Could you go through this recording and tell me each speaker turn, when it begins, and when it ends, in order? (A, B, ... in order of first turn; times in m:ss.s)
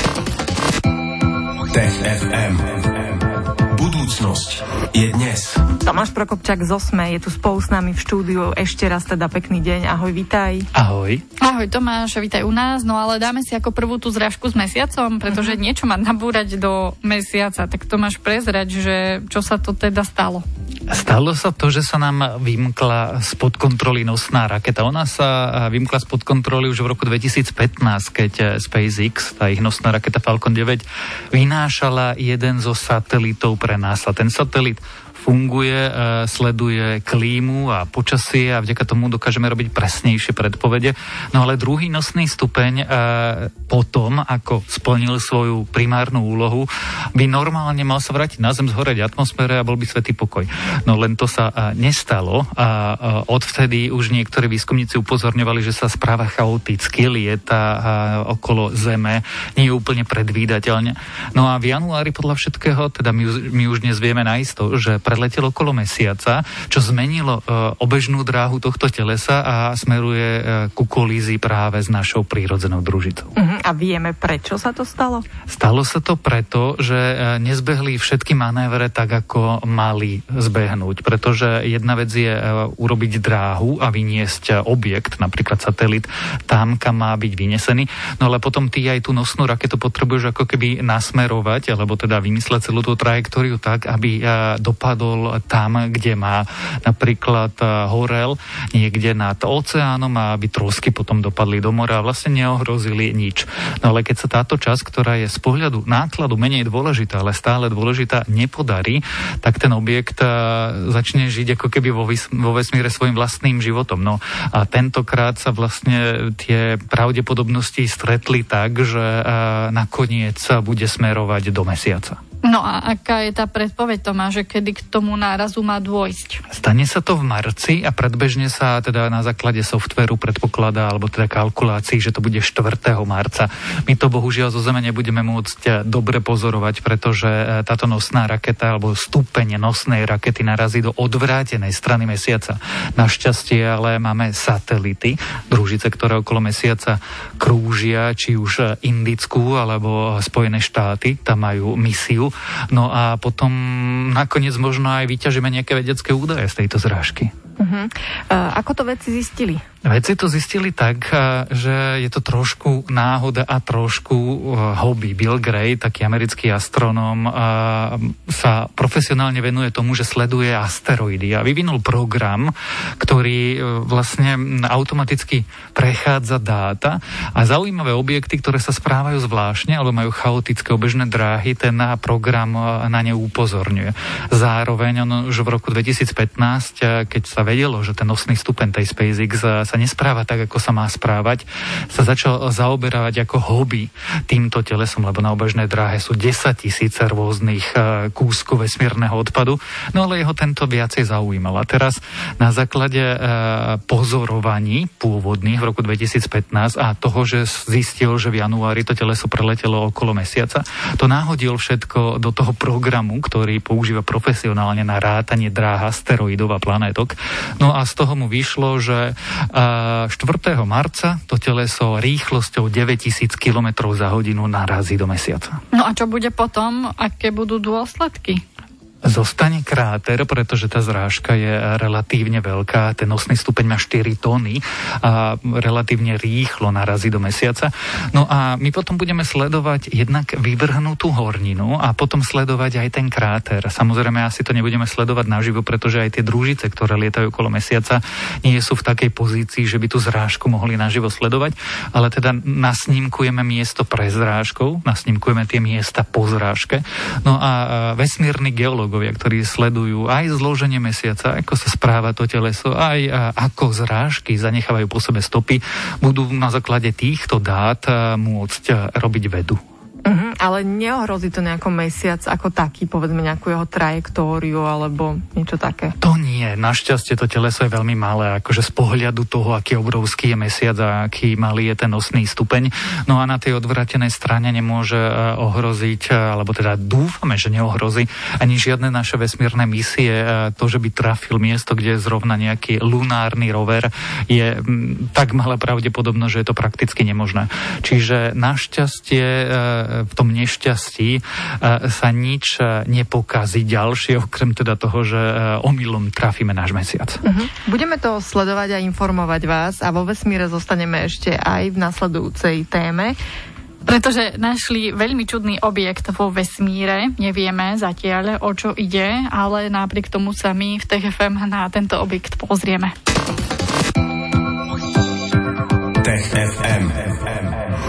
0:01.7-0:02.8 A
0:03.7-0:05.7 A
0:05.8-0:10.7 B
0:10.7-0:11.2 C
0:11.4-0:20.4 D
0:15.3-0:15.6 B
0:20.9-1:13.3 C
1:13.3-1:15.2 B
1:15.5-2:02.2 C
2:02.4-2:06.4 D
2:06.5-2:37.3 C
2:37.6-2:39.6 B
2:39.8-3:45.6 C
3:45.7-3:48.4 D
3:49.0-4:29.6 C
4:30.0-4:35.9 B
4:36.0-5:07.2 C
5:07.2-5:13.2 B
5:13.8-5:22.9 D
5:26.0-5:27.4 A